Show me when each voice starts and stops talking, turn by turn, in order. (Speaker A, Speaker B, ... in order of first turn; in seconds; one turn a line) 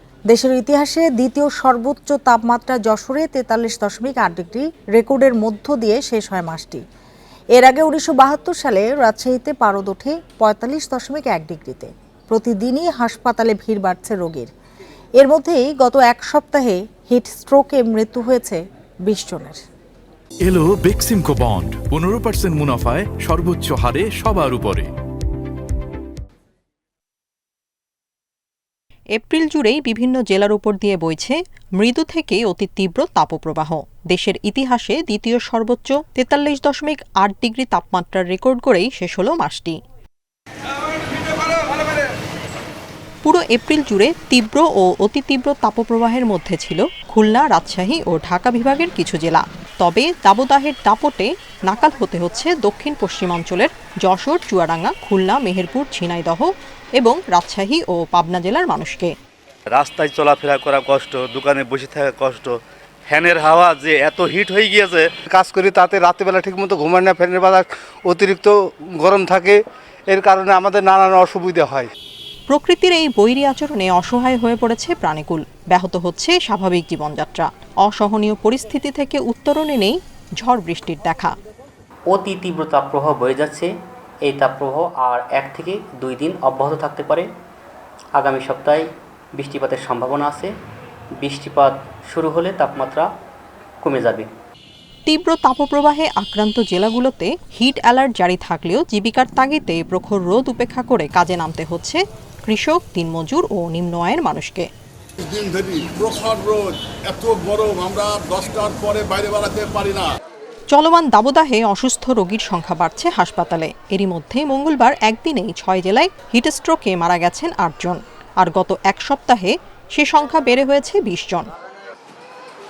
Speaker A: 0.3-6.8
Speaker A: 7.5-14.5
Speaker A: 15.2-19.6
Speaker B: 20.4-24.9
Speaker C: 29.1-39.8
Speaker C: 43.2-59.1
Speaker D: 59.7-65.2
Speaker E: 65.3-71.9
Speaker C: 72.5-81.3
Speaker F: 82.1-83.7
Speaker F: 84.2-87.3
Speaker F: 88.2-90.5
Speaker F: 91.2-93.1
Speaker F: 93.8-94.3
Speaker C: 95.1-104.7
Speaker G: 105.2-110.2
Speaker C: 110.7-121.5